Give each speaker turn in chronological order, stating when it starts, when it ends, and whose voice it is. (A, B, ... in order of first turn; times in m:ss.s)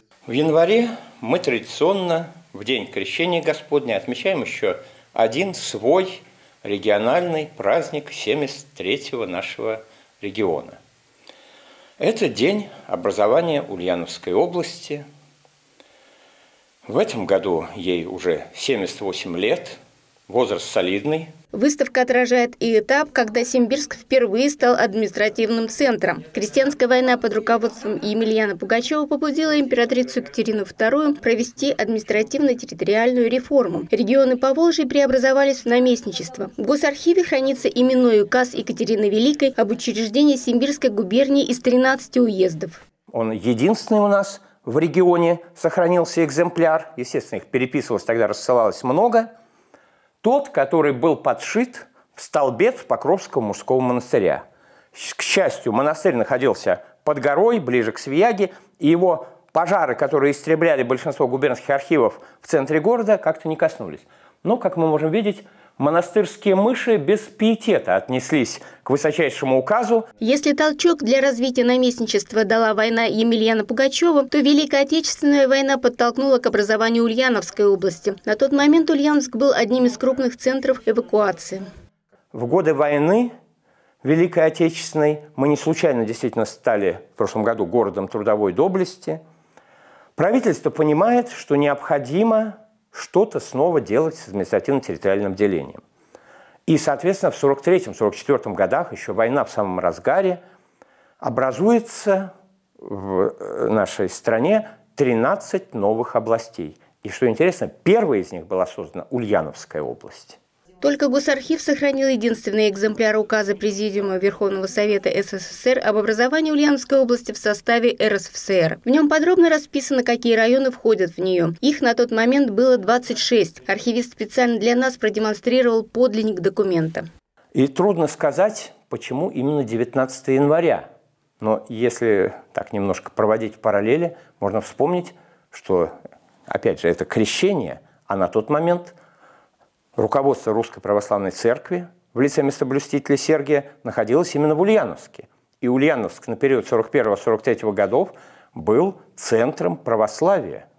0:00.3-0:10.8 A
0:12.0-0:15.0 A
0:16.9-0:19.8 A
0:20.3-0:21.3 A
0:21.5-0:42.8 B
0:43.1-0:49.3 A
0:50.2-0:54.4 A
0:54.9-1:10.1 A
1:10.2-1:21.6 B
1:22.3-1:23.3 A
1:24.0-1:29.2 A
1:30.2-1:35.8 A
1:36.7-1:40.4 A
1:41.2-1:50.4 A
1:50.8-2:07.1 B
2:07.6-2:10.8 A
2:11.4-2:15.9 A
2:16.5-2:19.0 A
2:20.0-2:30.6 A